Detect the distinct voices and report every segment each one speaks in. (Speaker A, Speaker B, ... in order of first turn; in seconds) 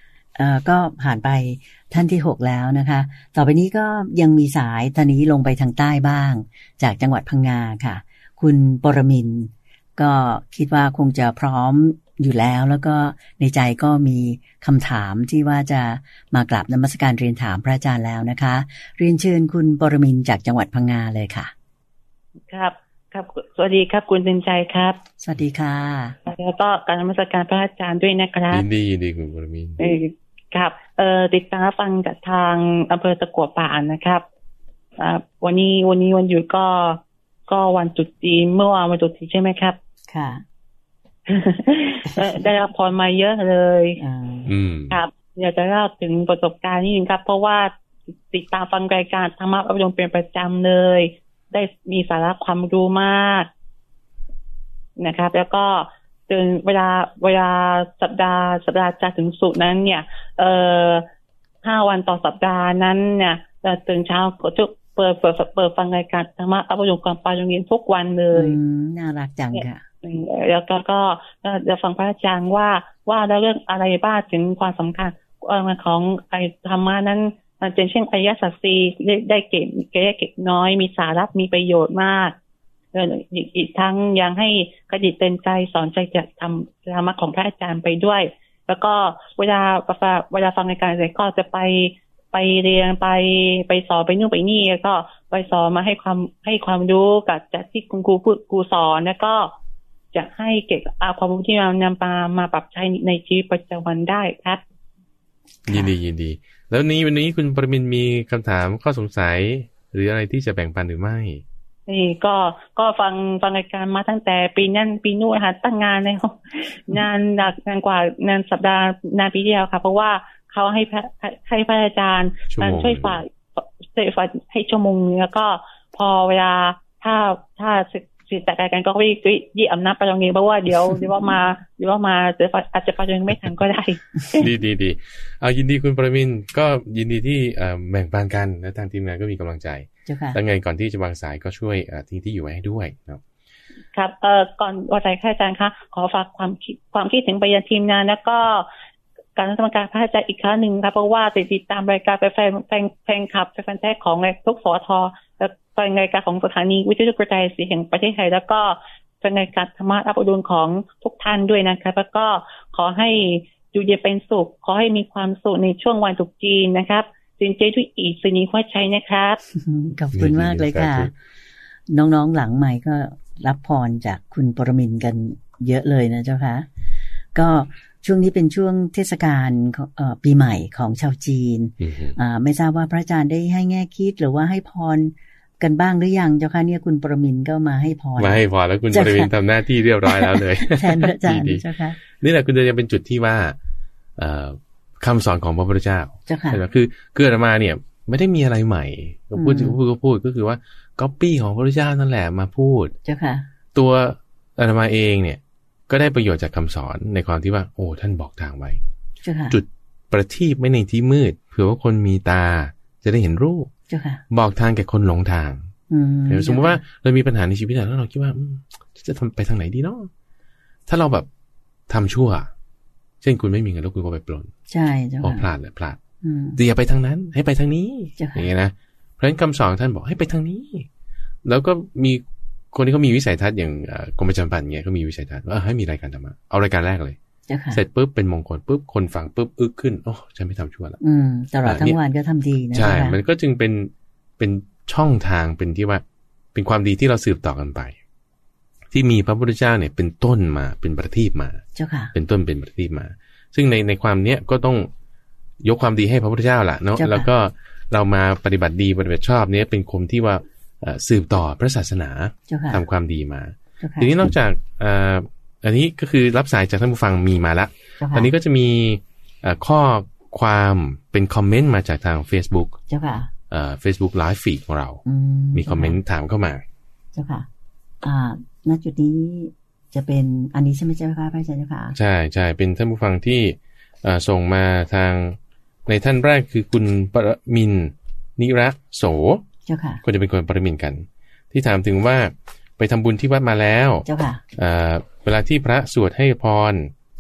Speaker A: 0.3-21.5, 25.2-26.2, 40.1-40.4, 42.1-42.4, 44.0-44.5, 68.3-69.8, 105.7-105.9, 140.1-140.4, 169.5-171.1, 171.9-176.7, 177.3-189.3, 190.1-192.0, 196.3-196.6, 199.3-199.8, 203.1-203.5, 209.2-209.6, 213.9-214.2, 215.9-216.8, 224.7-225.5, 226.2-226.6, 228.2-228.5, 237.5-237.8, 241.0-243.2, 251.8-252.1, 257.0-257.3, 262.5-262.9, 263.8-264.3, 268.0-268.3, 272.9-273.3, 275.1-276.0, 277.1-277.5, 278.0-282.0, 289.7-290.0, 294.1-294.4
Speaker B: 22.5-25.0, 26.3-28.6, 29.8-34.2, 35.0-39.8, 41.3-44.0, 44.9-47.7, 48.3-53.5, 55.0-61.1, 61.6-68.6, 69.5-82.3, 82.9-99.5, 100.1-104.6, 111.9-134.5, 143.9-148.7, 149.4-169.4
Speaker C: 28.5-29.8, 44.5-45.0, 105.7-111.4, 122.5-123.2, 134.3-143.2, 170.1-171.1, 181.8-182.2, 188.2-193.6, 194.2-202.9, 203.8-208.8, 209.5-213.7, 214.3-215.7, 216.3-220.1, 220.9-221.3, 221.9-222.5, 223.2-224.5, 225.2-226.0, 226.6-230.9, 231.4-237.2, 237.7-241.0, 241.6-242.0, 242.7-246.0, 246.6-248.0, 248.9-251.6, 252.1-254.9, 255.6-272.8, 273.5-275.0, 275.5-276.6, 281.9-289.4, 290.0-296.9